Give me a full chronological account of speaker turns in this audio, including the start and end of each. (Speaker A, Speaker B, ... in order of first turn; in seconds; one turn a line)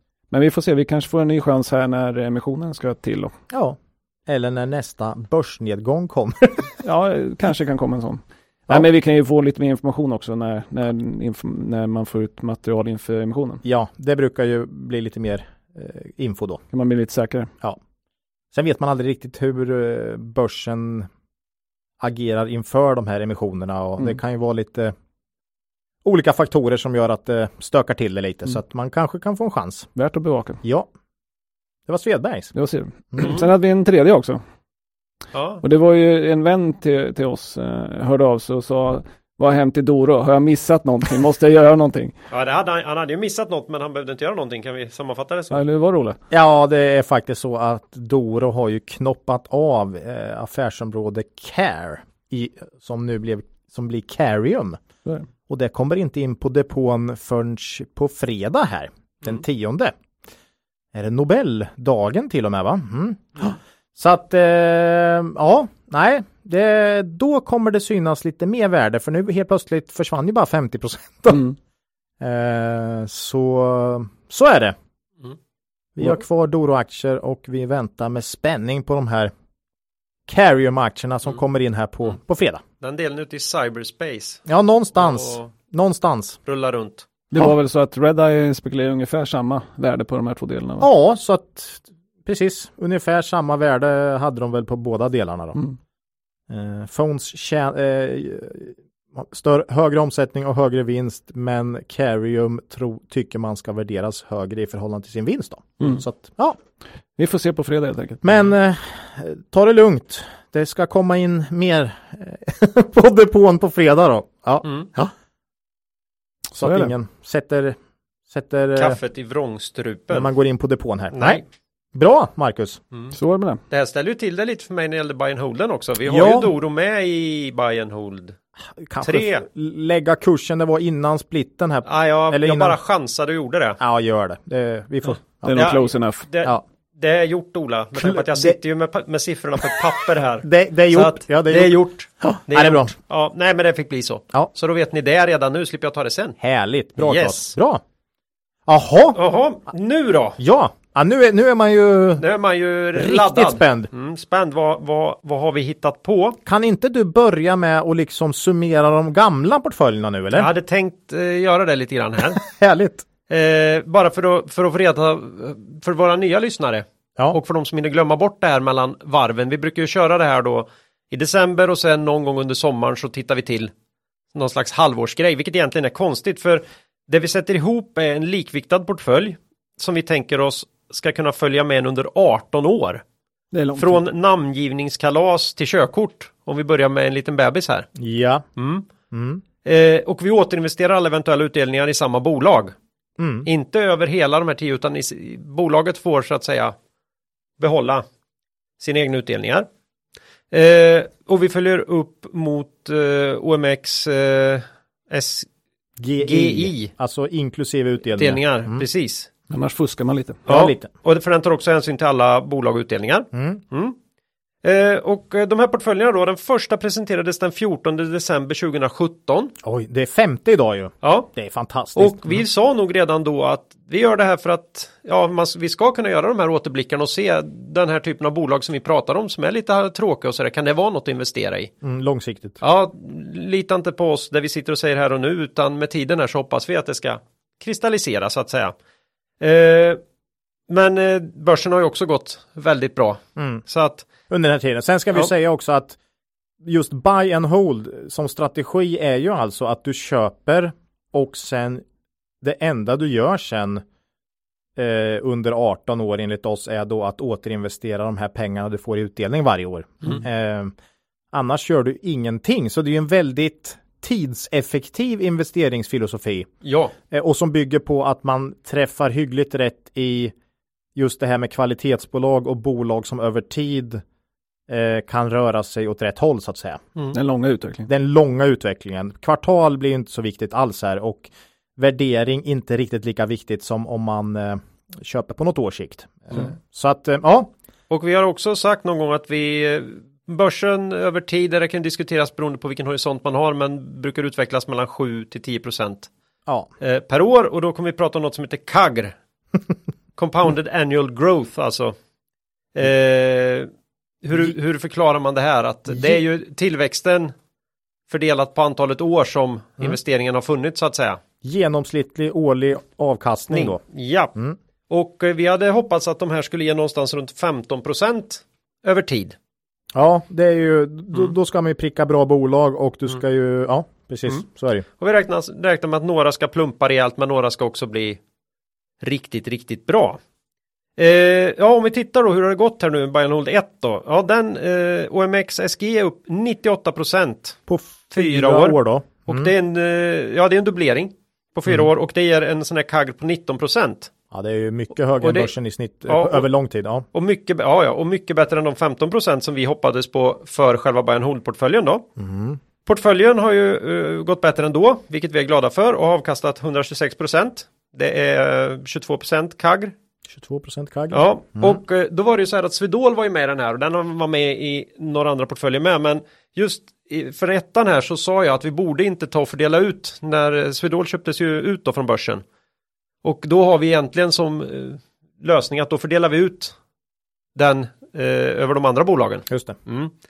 Speaker A: 0.3-3.3
Speaker B: 3.5-6.7
Speaker A: 6.8-13.6
Speaker B: 13.6-16.6
Speaker A: 16.7-17.5
Speaker B: 18.5-21.1
Speaker B: 22.0-24.9
Speaker B: 26.1-29.9
Speaker A: 30.0-30.6
Speaker B: 31.9-32.5
Speaker A: 32.5-34.4
Speaker C: 35.3-35.6
Speaker A: 35.6-42.1
Speaker C: 42.3-45.6
Speaker A: 45.5-46.2
Speaker B: 46.3-54.8
Speaker B: 55.5-60.0
Speaker B: 60.9-71.5
Speaker B: 72.2-74.8
Speaker B: 76.0-79.3
Speaker B: 80.3-82.6
Speaker C: 82.8-84.4
Speaker B: 84.5-86.4
Speaker C: 85.0-85.5
Speaker C: 86.5-87.1
Speaker A: 87.3-90.9
Speaker B: 90.8-95.6
Speaker B: 96.5-106.6
Speaker A: 107.2-108.2
Speaker B: 108.2-115.1
Speaker B: 116.5-117.8
Speaker A: 116.6-116.9
Speaker B: 118.3-119.0
Speaker C: 118.8-120.3
Speaker B: 120.1-121.4
Speaker C: 121.1-121.4
Speaker B: 121.9-122.8
Speaker A: 123.1-123.6
Speaker C: 123.7-128.4
Speaker B: 126.1-126.5
Speaker B: 128.8-132.8
Speaker C: 129.0-129.4
Speaker C: 131.9-133.8
Speaker B: 133.8-135.7
Speaker A: 135.4-136.3
Speaker C: 135.5-146.4
Speaker B: 138.0-138.6
Speaker B: 140.4-142.9
Speaker B: 146.4-147.8
Speaker C: 147.0-147.5
Speaker B: 148.7-149.2
Speaker C: 149.2-150.4
Speaker B: 150.4-152.2
Speaker C: 152.2-156.4
Speaker B: 152.9-153.9
Speaker B: 156.5-160.5
Speaker C: 160.3-162.4
Speaker B: 162.4-163.1
Speaker C: 163.3-173.7
Speaker C: 174.3-183.0
Speaker A: 183.5-184.0
Speaker C: 183.8-187.9
Speaker B: 188.0-188.4
Speaker C: 188.6-188.9
Speaker B: 189.1-189.4
Speaker C: 189.7-192.7
Speaker B: 193.2-193.5
Speaker C: 193.4-196.8
Speaker C: 197.6-198.0
Speaker C: 198.8-199.7
Speaker C: 200.5-205.5
Speaker B: 206.0-208.8
Speaker C: 206.2-206.9
Speaker C: 208.2-209.3
Speaker A: 209.5-210.4
Speaker C: 210.5-214.0
Speaker B: 210.5-210.9
Speaker B: 213.3-213.6
Speaker C: 214.6-219.5
Speaker B: 219.6-222.2
Speaker C: 221.0-221.3
Speaker C: 221.9-231.7
Speaker B: 231.8-232.6
Speaker C: 232.6-238.7
Speaker C: 239.4-240.0
Speaker C: 240.7-244.1
Speaker B: 243.4-243.6
Speaker B: 244.3-246.0
Speaker B: 246.6-251.8
Speaker B: 252.4-253.8
Speaker B: 254.8-260.7
Speaker B: 261.3-266.5
Speaker C: 266.6-266.9
Speaker B: 267.1-270.3
Speaker B: 270.9-274.0
Speaker B: 274.7-276.8
Speaker A: 277.1-277.9
Speaker B: 277.9-287.5
Speaker C: 287.9-296.1
Speaker C: 296.8-299.1
Speaker C: 300.2-301.9
Speaker C: 302.8-303.7
Speaker C: 304.2-307.3
Speaker B: 305.9-306.2
Speaker C: 308.1-311.2
Speaker B: 311.4-313.8
Speaker C: 313.5-314.3
Speaker C: 314.9-319.4
Speaker B: 319.9-324.9
Speaker C: 325.0-328.2
Speaker C: 329.0-330.2
Speaker C: 331.0-337.6
Speaker B: 337.7-339.5
Speaker C: 338.1-344.1
Speaker B: 344.3-347.1
Speaker C: 345.2-345.5
Speaker C: 346.1-346.5
Speaker C: 347.1-352.1
Speaker B: 352.2-352.6
Speaker C: 352.9-359.9
Speaker B: 360.3-361.8
Speaker C: 361.1-372.4
Speaker C: 373.2-376.8
Speaker C: 377.6-380.1
Speaker B: 379.5-379.8